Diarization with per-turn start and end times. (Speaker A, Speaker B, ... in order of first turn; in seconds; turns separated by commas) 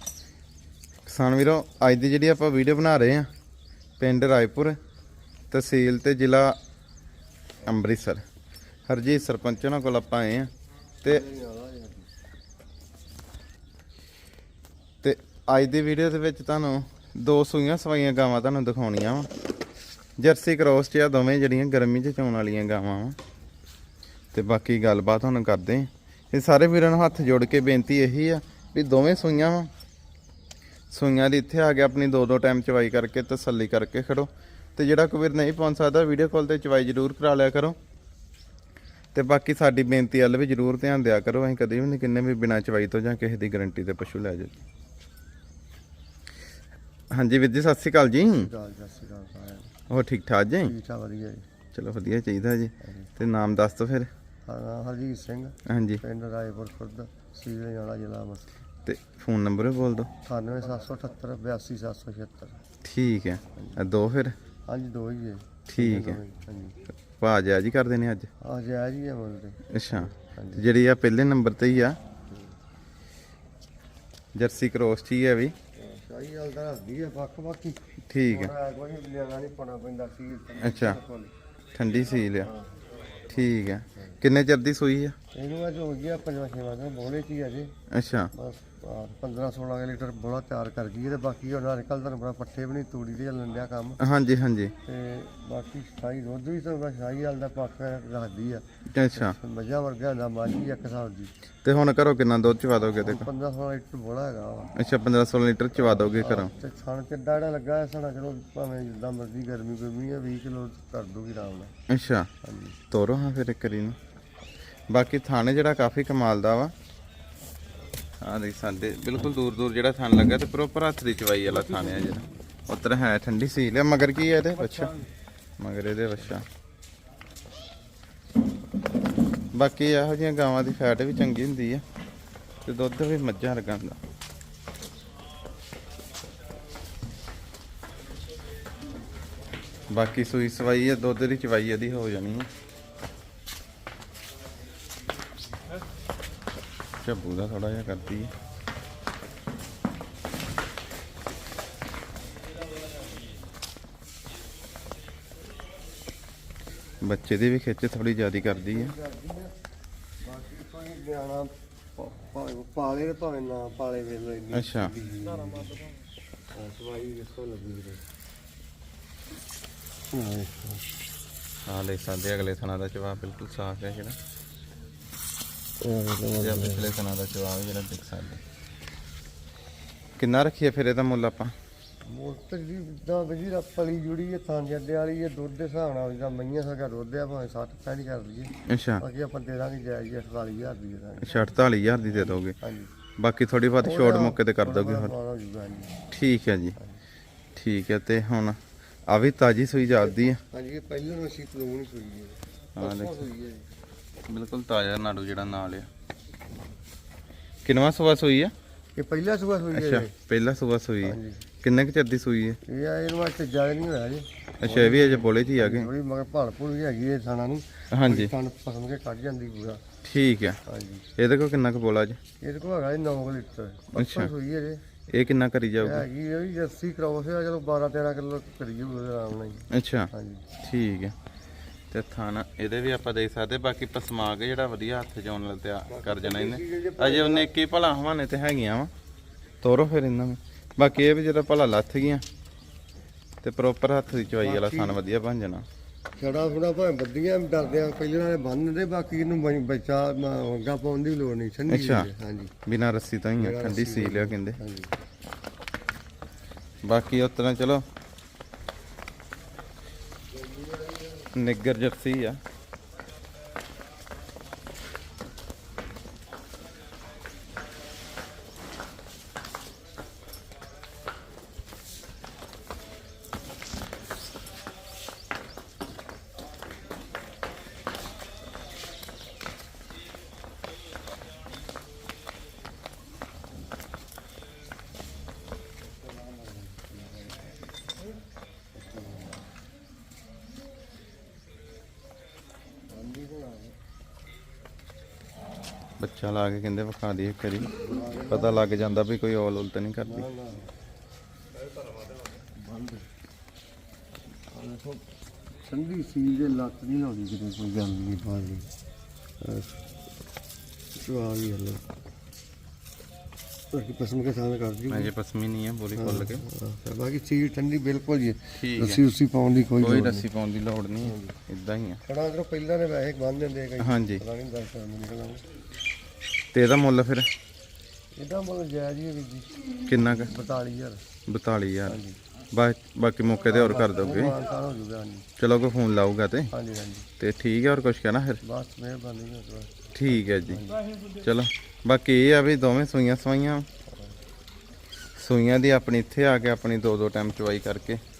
Speaker A: 1.0-3.3, Speaker A: 4.0-4.8, Speaker A: 5.5-6.6, Speaker A: 7.7-8.2, Speaker A: 8.9-10.5, Speaker B: 11.0-12.1, Speaker A: 15.0-19.3, Speaker A: 20.2-23.2, Speaker A: 24.3-29.7, Speaker A: 30.9-37.8, Speaker A: 39.1-44.6, Speaker A: 47.1-48.5, Speaker B: 48.3-49.7, Speaker A: 49.9-50.7, Speaker B: 50.6-51.4, Speaker A: 51.7-54.1, Speaker B: 54.5-58.5, Speaker A: 55.6-56.0, Speaker A: 58.9-60.1, Speaker B: 60.2-62.6, Speaker A: 62.8-64.3, Speaker B: 64.7-66.8, Speaker A: 65.7-66.2, Speaker A: 67.2-68.3, Speaker B: 68.4-70.7, Speaker A: 69.7-72.0, Speaker A: 74.3-75.5, Speaker B: 75.8-81.3, Speaker A: 78.1-78.5, Speaker A: 80.6-81.0, Speaker A: 81.7-82.5, Speaker B: 82.4-82.8, Speaker A: 83.3-85.2, Speaker B: 85.3-87.7, Speaker A: 87.9-88.3, Speaker B: 88.3-94.0, Speaker A: 94.0-94.7, Speaker B: 94.8-101.3, Speaker A: 98.9-99.3, Speaker A: 101.6-103.3, Speaker B: 103.0-104.7, Speaker A: 104.7-106.5, Speaker B: 105.7-111.7, Speaker A: 111.9-112.3, Speaker B: 112.4-112.8, Speaker A: 112.9-114.0, Speaker A: 114.9-116.7, Speaker A: 118.2-124.9, Speaker B: 124.7-125.0, Speaker A: 125.6-126.5, Speaker A: 129.5-131.8, Speaker A: 132.6-134.0, Speaker A: 139.9-142.5, Speaker A: 147.0-148.3, Speaker A: 157.0-158.9, Speaker B: 158.4-159.5, Speaker B: 160.2-165.9, Speaker A: 164.5-164.9, Speaker B: 166.5-168.0, Speaker B: 170.1-170.8, Speaker A: 171.7-174.2, Speaker B: 175.8-176.9, Speaker A: 176.4-178.4, Speaker A: 180.2-181.5, Speaker B: 182.1-192.9, Speaker A: 188.7-189.0, Speaker A: 191.2-192.6, Speaker A: 193.2-195.1, Speaker B: 193.8-195.9, Speaker A: 196.1-196.8, Speaker A: 197.6-200.4, Speaker B: 200.0-203.7, Speaker A: 202.8-203.1, Speaker A: 204.3-205.9, Speaker A: 207.6-208.5, Speaker B: 208.9-210.1, Speaker A: 209.7-212.6, Speaker B: 211.0-211.4, Speaker B: 212.6-219.8, Speaker A: 214.6-215.9, Speaker A: 217.9-218.3, Speaker A: 220.0-220.6, Speaker B: 220.7-221.0, Speaker A: 221.2-222.2, Speaker B: 222.4-224.8, Speaker A: 223.9-224.3, Speaker A: 225.1-226.1, Speaker B: 225.8-230.4, Speaker A: 229.7-231.1, Speaker A: 231.9-238.9, Speaker B: 235.9-237.5, Speaker A: 239.6-242.2, Speaker A: 243.4-245.6, Speaker B: 244.4-245.0, Speaker B: 246.2-252.5, Speaker A: 251.7-252.1, Speaker A: 252.6-254.6, Speaker B: 253.4-254.9, Speaker A: 256.8-257.8, Speaker B: 260.3-261.3, Speaker A: 261.3-262.4, Speaker B: 286.0-287.6, Speaker B: 288.8-289.4, Speaker B: 292.9-293.8, Speaker A: 296.0-300.2, Speaker B: 297.7-298.9, Speaker B: 300.0-300.7, Speaker B: 302.4-303.1, Speaker B: 304.5-305.0, Speaker B: 305.6-308.7, Speaker B: 309.4-309.8, Speaker B: 311.0-311.8, Speaker B: 313.7-315.1, Speaker A: 314.9-316.4, Speaker B: 315.9-320.3, Speaker A: 318.5-319.0, Speaker A: 319.8-322.0, Speaker B: 321.0-321.4, Speaker B: 322.1-325.4, Speaker A: 323.8-324.2, Speaker A: 326.5-327.3, Speaker B: 328.2-329.5, Speaker A: 329.9-330.3, Speaker B: 330.2-331.0, Speaker A: 331.3-332.0, Speaker B: 331.9-332.2, Speaker A: 332.5-334.4, Speaker B: 333.5-335.2, Speaker A: 335.4-336.5, Speaker B: 336.5-337.1, Speaker A: 337.2-338.4, Speaker B: 338.4-340.9, Speaker A: 339.9-343.6, Speaker A: 345.1-348.0